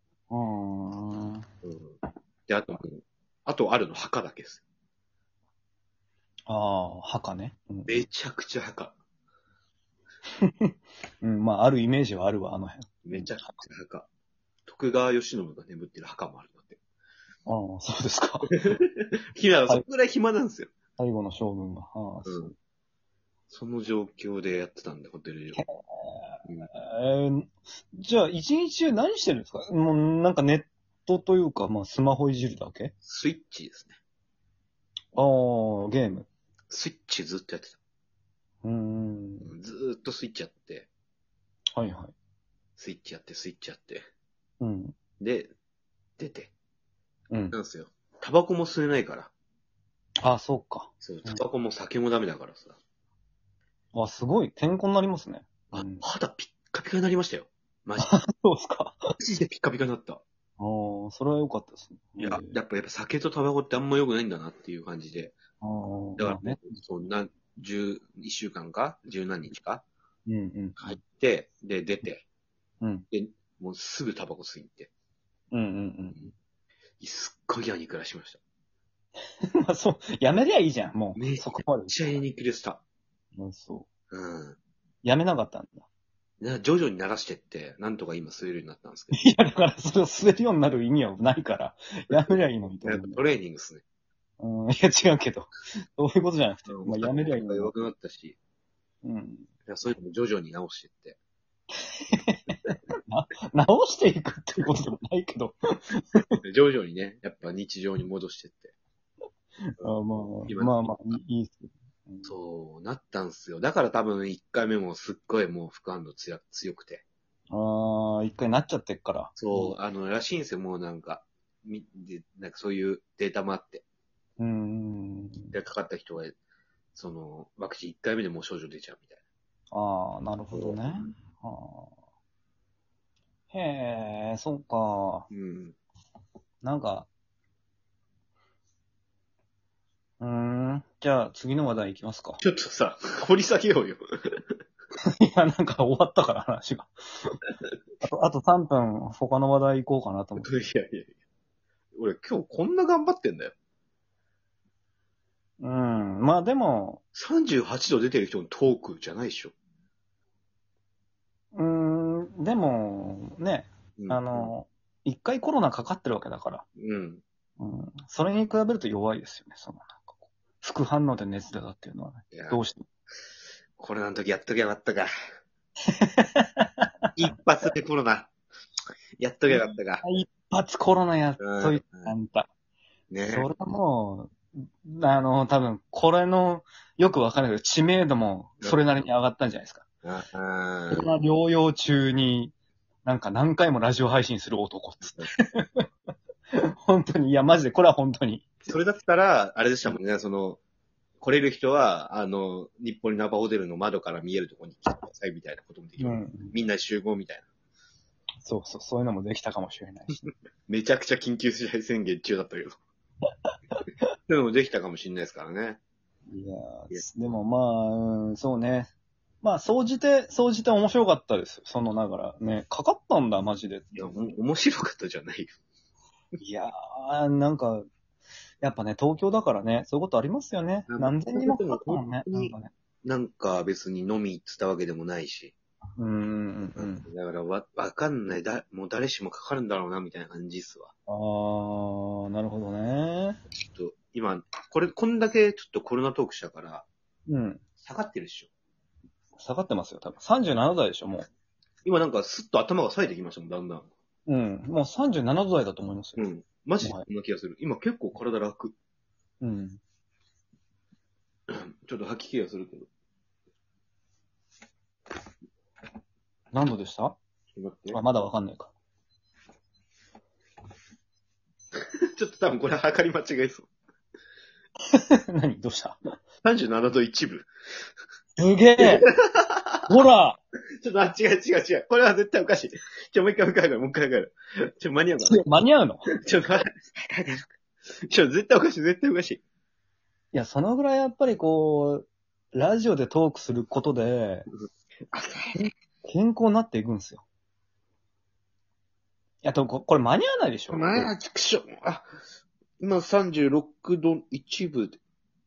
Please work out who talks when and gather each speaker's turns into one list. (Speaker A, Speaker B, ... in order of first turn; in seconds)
Speaker A: 0.3-1.5, 6.5-8.1, 10.5-13.5, 17.5-18.5, 21.0-22.5, 25.6-32.9, 35.1-36.3, 38.6-39.5, 41.7-42.1, 44.6-45.0, 47.3-47.6, 50.2-51.4, 53.9-56.1, 58.0-59.1, 60.6-62.6, 65.6-66.6, 70.3-71.0, 72.8-73.1, 75.5-76.3, 79.6-82.0, 83.4-83.9, 85.0-85.9, 89.1-93.2, 94.4-97.8, 99.0-99.5, 101.8-102.5, 103.1-106.4, 109.7-112.3, 117.5-119.8, 124.4-125.5, 129.7-131.9, 133.5-135.3, 136.6-137.1, 140.2-142.4, 145.2-147.4, 148.0-150.5, 155.6-157.0, 161.5-166.7, 167.6-172.8, 176.0-177.1, 179.5-182.5, 183.3-189.8, 190.9-192.5, 193.1-195.8, 196.8-198.7, 206.0-206.6, 208.4-210.3, 216.3-218.9, 219.4-224.3, 226.4-227.9, 228.6-232.7, 236.0-237.1, 241.1-243.4, 247.3-247.6, 249.4-251.3, 254.3-256.3, 259.4-259.8, 266.5-267.2, 267.9-268.7, 274.9-276.0, 278.4-279.1, 279.9-280.4, 285.2-286.1, 290.3-294.5, 296.1-297.2, 299.4-301.1
Speaker B: 1.6-4.6, 7.9-9.0, 13.1-14.1, 14.7-16.8, 18.7-20.7, 22.2-22.5, 23.5-25.6, 33.0-34.0, 36.7-37.8, 39.4-40.9, 42.8-44.1, 45.2-45.5, 46.2-46.5, 47.5-49.3, 51.0-52.8, 55.7-58.1, 59.2-60.2, 62.2-65.4, 66.2-69.9, 70.8-72.2, 73.1-74.9, 77.0-78.4, 81.2-82.8, 84.1-84.6, 86.4-89.2, 92.8-93.8, 96.7-98.4, 99.7-101.2, 106.4-108.7, 109.8-111.2, 112.2-117.0, 119.4-123.8, 125.5-126.3, 126.9-129.2, 130.5-131.1, 135.3-135.8, 142.4-144.4, 150.4-151.1, 152.0-153.5, 157.2-159.5, 164.0-164.5, 166.8-167.2, 172.3-172.6, 173.8-175.1, 177.2-178.3, 179.2-180.1, 181.4-182.2, 183.1-183.5, 190.0-191.2, 198.7-200.6, 201.2-207.5, 210.7-212.8, 214.3-215.8, 224.0-225.5, 230.9-235.5, 236.8-240.9, 243.6-246.9, 247.8-248.5, 251.8-253.9, 256.2-258.7, 261.5-262.9, 267.6-268.0, 271.7-273.7, 276.4-277.5, 278.8-279.8, 280.8-285.4, 286.2-287.5, 288.1-289.4, 295.1-295.6, 300.7-302.1, 302.8-305.0